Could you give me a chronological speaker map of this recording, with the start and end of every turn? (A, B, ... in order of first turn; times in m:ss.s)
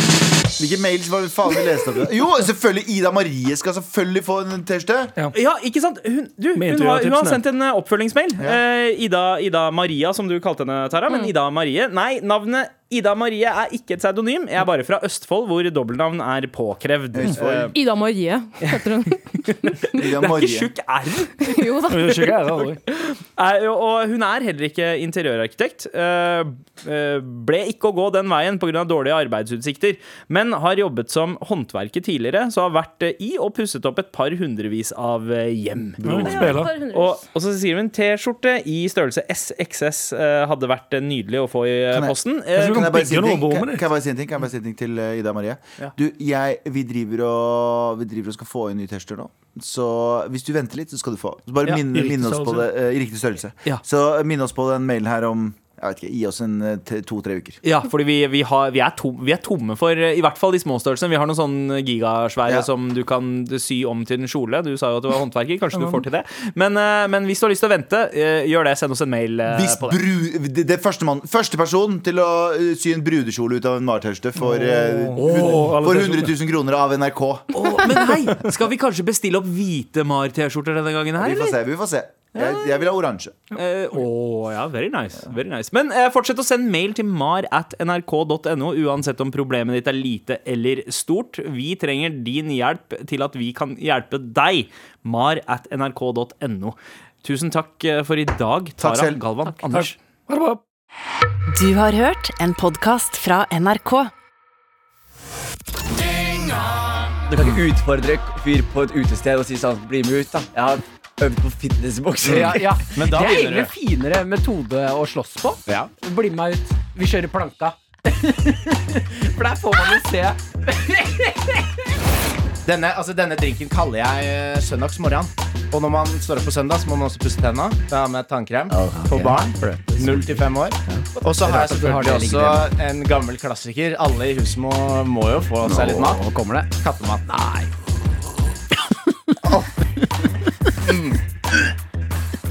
0:00.6-0:05.1 A
0:05.3-0:17.7 B
0:06.6-0:07.4 C
0:17.1-0:17.7 A
0:17.7-0:19.2 D
0:19.3-0:21.5 B
0:19.9-0:20.7 A
0:21.4-0:22.6 D
0:21.9-0:22.8 C
0:22.9-0:42.9 B
0:36.0-0:36.7 C
0:36.1-0:37.2 D
0:41.9-0:57.6 A
0:42.6-0:43.8 C
0:51.7-0:52.7 C
0:57.6-1:10.0 B
1:05.7-1:06.0 C
1:09.5-1:17.7 A
1:14.4-1:16.3 C
1:15.2-1:15.7 B
1:17.5-1:21.6 B
1:21.2-1:23.4 A
1:22.3-1:22.9 B
1:23.5-1:40.0 B
1:38.8-1:39.2 A
1:39.7-1:40.6 C
1:41.5-1:44.1 E
1:47.3-1:52.8 F
1:52.2-2:01.7 G
1:52.4-1:53.7 H
2:02.6-2:16.2 H
2:08.7-2:10.4 F
2:09.1-2:10.4 G
2:11.4-2:12.7 G
2:15.6-2:16.8 G
2:15.6-2:16.1 F
2:16.8-2:17.2 H
2:17.3-2:17.7 G